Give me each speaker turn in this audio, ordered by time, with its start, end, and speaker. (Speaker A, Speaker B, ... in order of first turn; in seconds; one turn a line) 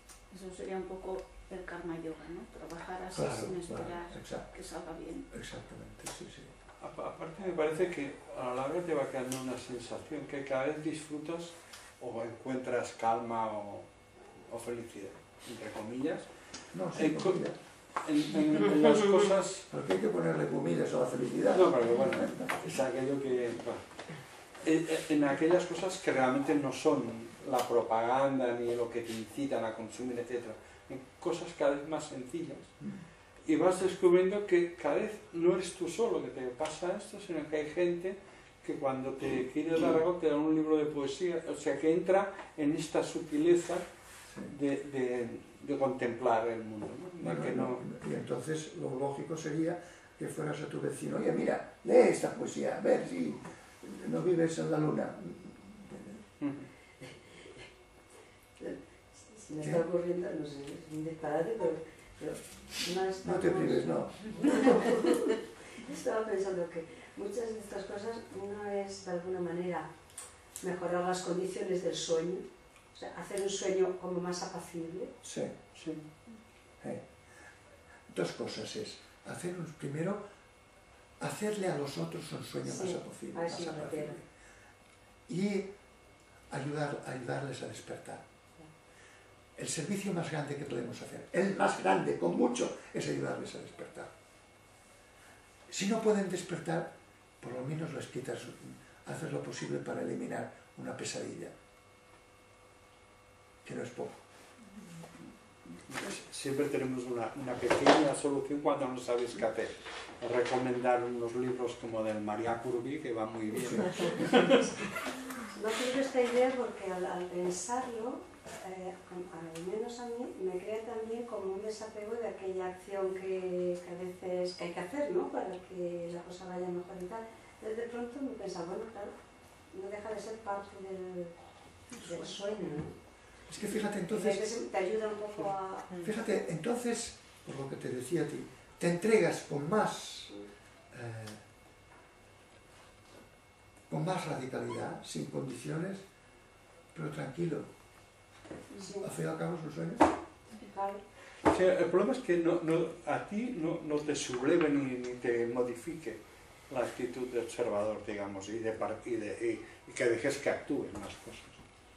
Speaker A: 0.3-5.3
Speaker B: 3.1-4.5
Speaker B: 5.3-6.5
Speaker C: 6.8-13.9
Speaker C: 14.5-16.3
Speaker B: 16.7-17.6
Speaker C: 16.9-17.4
Speaker C: 18.0-19.7
Speaker B: 19.7-22.8
Speaker C: 21.4-23.9
Speaker C: 24.6-32.7
Speaker C: 33.5-43.9
Speaker C: 44.5-47.8
Speaker B: 47.2-56.2
Speaker C: 56.4-56.7
Speaker D: 58.6-69.9
Speaker B: 59.6-59.9
Speaker B: 63.2-64.6
Speaker D: 70.6-75.1
Speaker B: 75.2-75.5
Speaker C: 75.7-76.0
Speaker B: 76.8-77.1
Speaker B: 78.1-80.2
Speaker B: 81.2-84.3
Speaker D: 82.7-84.2
Speaker B: 85.3-85.7
Speaker B: 86.5-88.3
Speaker B: 89.6-94.1
Speaker B: 95.7-101.5
Speaker B: 103.6-104.2
Speaker A: 105.7-106.2
Speaker C: 105.9-114.7
Speaker B: 113.6-114.0
Speaker D: 113.9-129.1
Speaker D: 129.7-131.4
Speaker D: 131.9-133.0
Speaker A: 132.0-132.9
Speaker B: 133.5-134.5
Speaker D: 134.1-136.0
Speaker B: 136.0-140.3
Speaker B: 140.9-141.4
Speaker B: 143.9-146.1
Speaker B: 146.9-147.7
Speaker D: 148.7-149.1
Speaker B: 149.0-150.1
Speaker D: 150.5-151.0
Speaker C: 151.5-161.6